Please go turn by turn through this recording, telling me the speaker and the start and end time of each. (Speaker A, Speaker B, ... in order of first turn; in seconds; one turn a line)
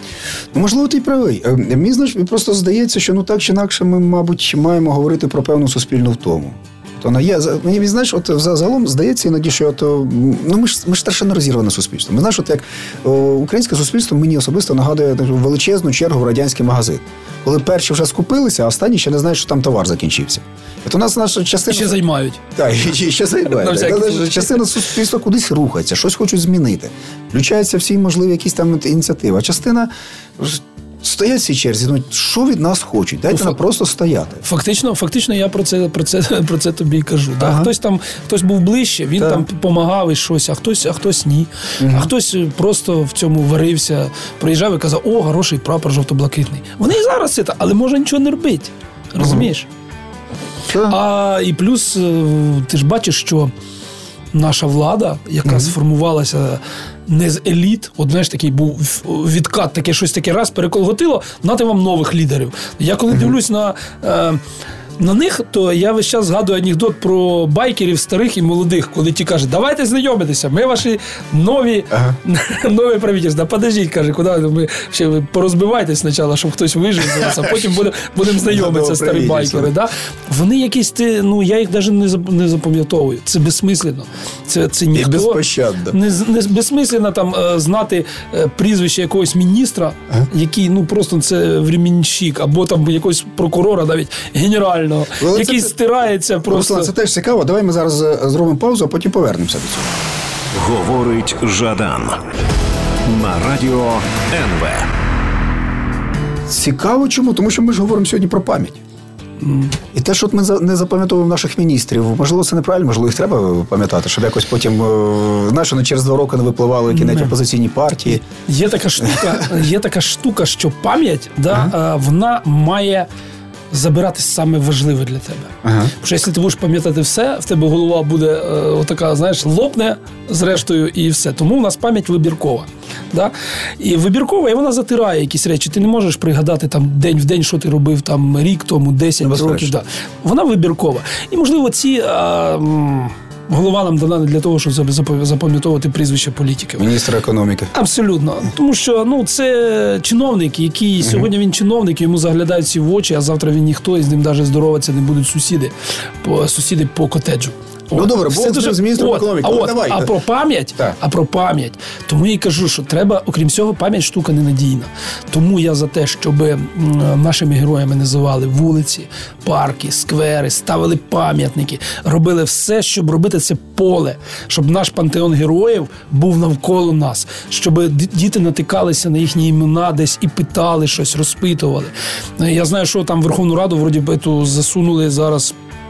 Speaker A: 0.5-21.9
Speaker B: 21.7-22.4
Speaker A: 22.5-34.4
Speaker B: 23.5-24.7
Speaker B: 34.4-49.7
Speaker A: 37.4-37.7
Speaker A: 39.2-39.4
Speaker A: 41.8-42.1
Speaker A: 49.2-49.5
Speaker A: 50.7-51.0
Speaker B: 50.8-53.5
Speaker B: 54.3-64.4
Speaker A: 55.4-55.7
Speaker B: 65.0-96.9
Speaker A: 77.1-79.7
Speaker A: 84.9-86.0
Speaker A: 95.2-95.8
Speaker A: 96.5-99.9
Speaker C: 100.5-102.2
Speaker C: 103.0-104.9
Speaker A: 106.5-108.8
Speaker B: 109.4-109.8
Speaker A: 109.9-118.2
Speaker B: 116.9-117.3
Speaker B: 117.9-123.1
Speaker A: 119.0-119.4
Speaker B: 123.7-146.9
Speaker A: 125.6-125.9
Speaker A: 139.2-139.8
Speaker A: 146.8-147.7
Speaker B: 147.7-185.5
Speaker A: 151.0-151.3
Speaker A: 157.9-160.1